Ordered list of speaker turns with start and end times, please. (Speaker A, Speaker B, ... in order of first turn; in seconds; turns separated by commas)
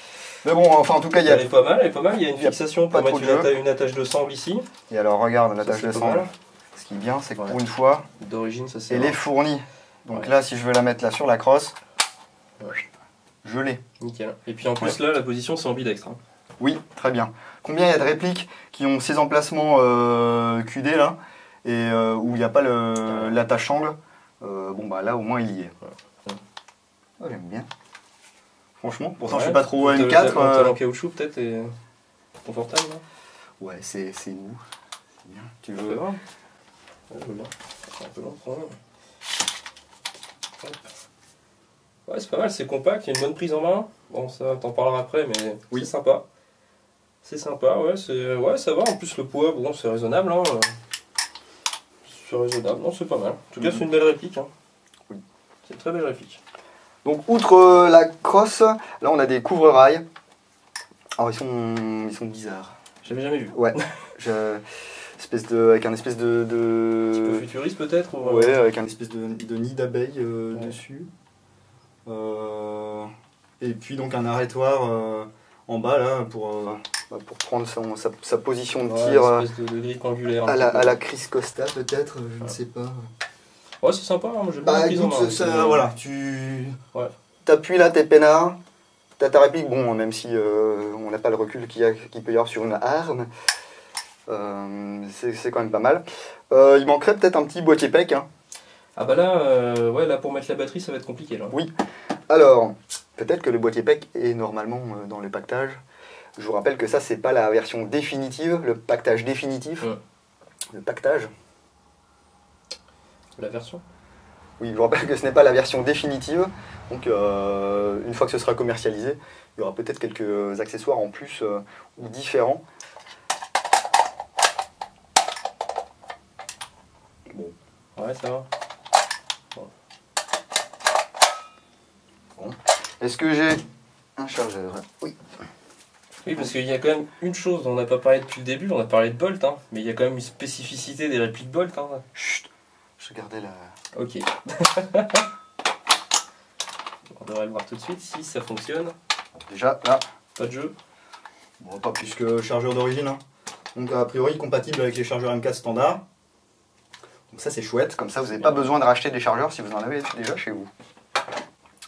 Speaker A: 0.4-1.5, Speaker B: 1.2-4.7, Speaker A: 2.4-3.5, Speaker A: 4.9-8.0, Speaker B: 5.6-6.3, Speaker B: 8.2-9.2, Speaker A: 8.9-11.8, Speaker A: 13.4-13.8, Speaker B: 14.0-16.2, Speaker A: 16.6-25.7, Speaker B: 23.1-23.4, Speaker A: 27.2-27.7, Speaker A: 28.8-30.8, Speaker B: 29.3-31.7, Speaker B: 32.5-33.0, Speaker A: 33.6-34.6, Speaker A: 35.2-36.0, Speaker B: 35.8-36.2, Speaker B: 37.1-38.8, Speaker B: 42.1-46.2, Speaker B: 47.2-50.7, Speaker B: 52.0-54.5, Speaker B: 55.6-56.4, Speaker A: 57.0-60.0, Speaker A: 61.2-62.8, Speaker B: 63.0-63.9, Speaker A: 63.5-64.6, Speaker A: 65.2-67.4, Speaker B: 67.2-68.6, Speaker A: 68.2-71.1, Speaker A: 72.1-73.1, Speaker A: 73.6-79.5, Speaker B: 78.8-81.0, Speaker A: 80.5-83.0, Speaker B: 83.8-85.9, Speaker A: 84.6-86.8, Speaker A: 87.5-88.6, Speaker A: 89.2-93.3, Speaker A: 94.3-98.2, Speaker B: 99.0-101.6, Speaker A: 102.3-105.8, Speaker A: 106.4-109.9, Speaker A: 110.7-111.3, Speaker B: 113.4-113.8, Speaker A: 114.6-122.6, Speaker B: 128.0-128.5, Speaker A: 132.4-133.6, Speaker A: 134.2-135.2, Speaker B: 136.2-142.0, Speaker A: 142.1-142.5, Speaker A: 143.0-143.7, Speaker B: 143.9-145.3, Speaker B: 147.2-148.9, Speaker A: 149.5-150.0, Speaker B: 150.4-150.7, Speaker A: 151.6-153.2, Speaker A: 153.8-156.0, Speaker A: 157.3-160.7, Speaker B: 158.3-158.7